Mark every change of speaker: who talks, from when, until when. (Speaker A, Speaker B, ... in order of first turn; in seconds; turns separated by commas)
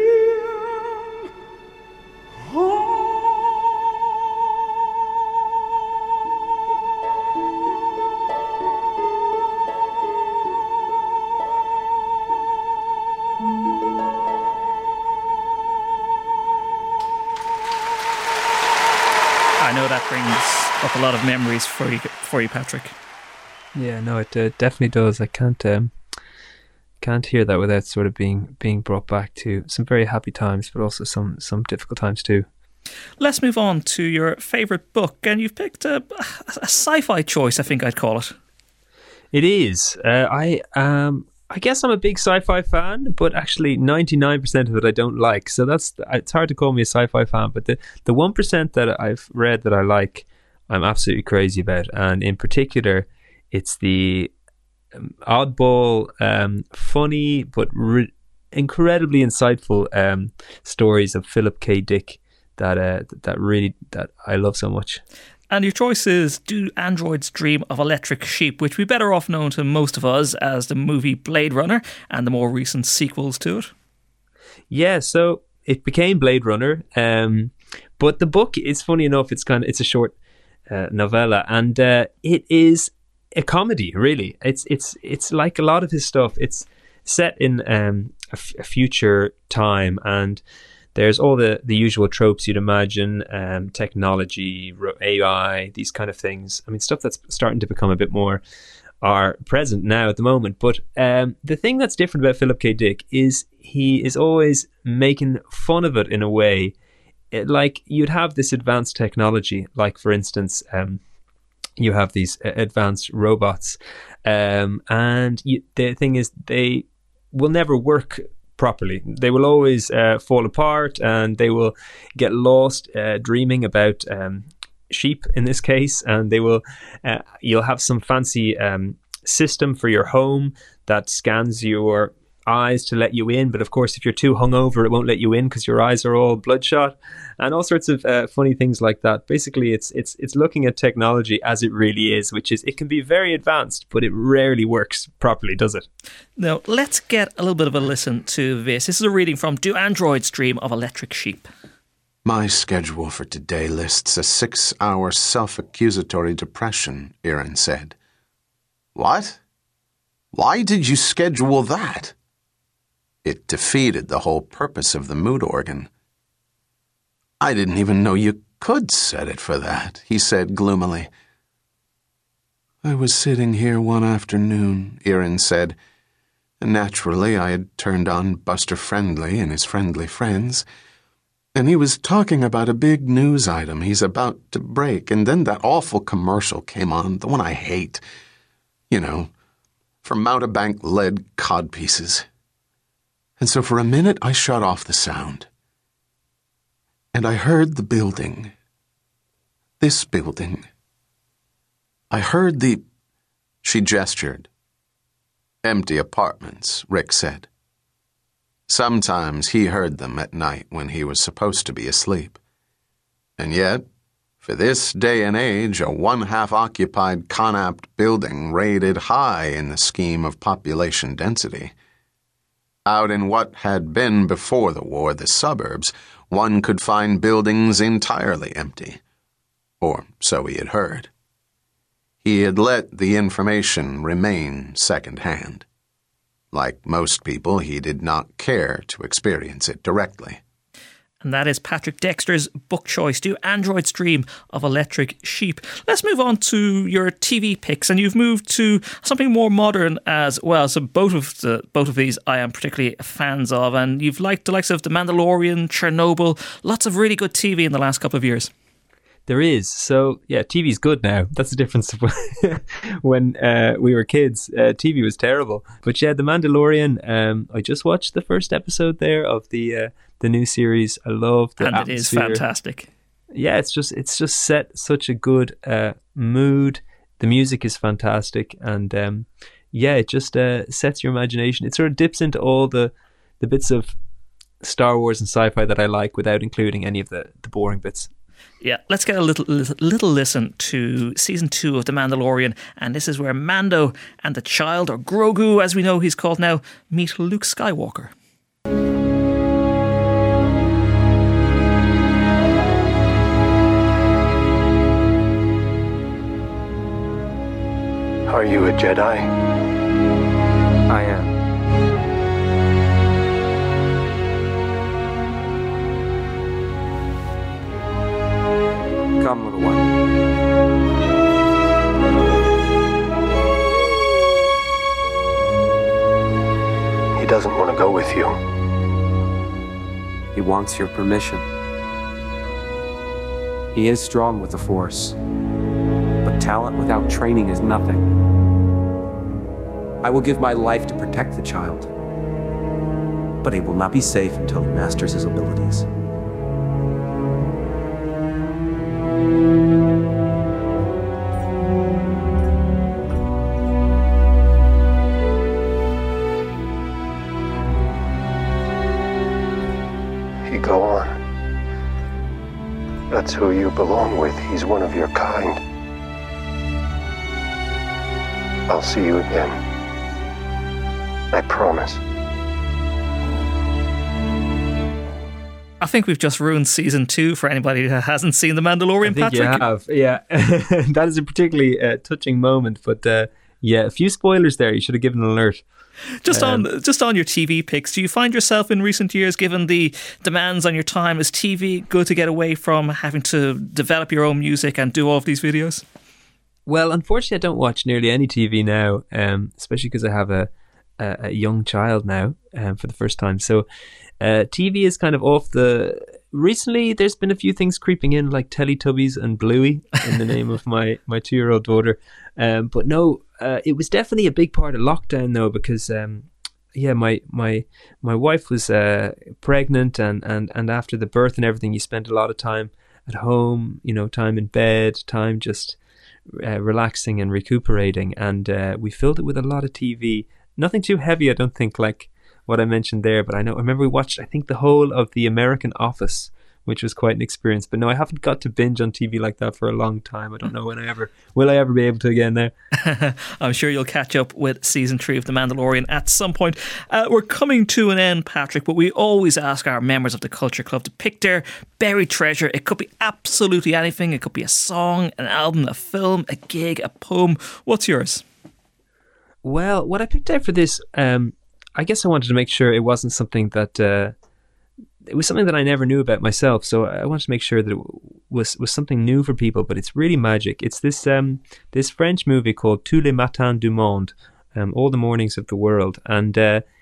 Speaker A: 19.6-22.9, Speaker B: 23.7-25.9, Speaker B: 27.0-32.5, Speaker A: 33.2-38.4, Speaker B: 39.3-54.3, Speaker B: 54.9-65.0, Speaker A: 65.5-73.7, Speaker B: 74.7-80.1, Speaker B: 80.7-90.4, Speaker B: 90.9-98.4, Speaker B: 99.0-106.7, Speaker B: 107.3-111.0, Speaker B: 111.8-145.8, Speaker A: 146.4-151.5, Speaker C: 152.2-157.9, Speaker C: 158.9-159.4, Speaker C: 160.3-162.1, Speaker C: 163.2-165.9, Speaker C: 167.4-171.1, Speaker C: 172.8-175.8, Speaker C: 176.6-180.6, Speaker C: 181.5-188.0, Speaker C: 188.9-189.3, Speaker C: 190.0-192.2, Speaker C: 193.4-195.5, Speaker C: 197.1-198.5, Speaker C: 199.8-200.7, Speaker C: 202.1-202.8, Speaker C: 203.6-204.5, Speaker C: 205.6-207.5, Speaker C: 208.7-212.4, Speaker C: 213.4-213.8, Speaker C: 214.4-221.7, Speaker C: 222.8-229.0, Speaker C: 229.8-231.1, Speaker C: 232.2-235.7, Speaker C: 236.5-240.4, Speaker A: 241.2-258.5, Speaker B: 259.3-272.4, Speaker A: 271.6-272.9, Speaker B: 273.3-283.9, Speaker B: 284.6-288.1, Speaker A: 288.6-298.1, Speaker D: 308.3-309.3, Speaker E: 310.9-311.2, Speaker E: 319.2-319.9, Speaker D: 327.2-328.4, Speaker E: 330.3-331.4, Speaker E: 333.7-335.2, Speaker E: 336.2-338.0, Speaker E: 340.0-341.9, Speaker E: 343.4-345.9, Speaker D: 360.4-361.2, Speaker D: 363.1-365.6, Speaker D: 368.7-369.6, Speaker D: 371.3-372.0, Speaker A: 375.8-379.6, Speaker B: 379.0-385.6, Speaker A: 386.2-395.8, Speaker B: 386.3-386.6, Speaker B: 396.6-403.7, Speaker B: 404.2-425.8, Speaker B: 426.3-442.5, Speaker A: 442.8-458.2, Speaker B: 459.4-464.1, Speaker B: 465.1-476.6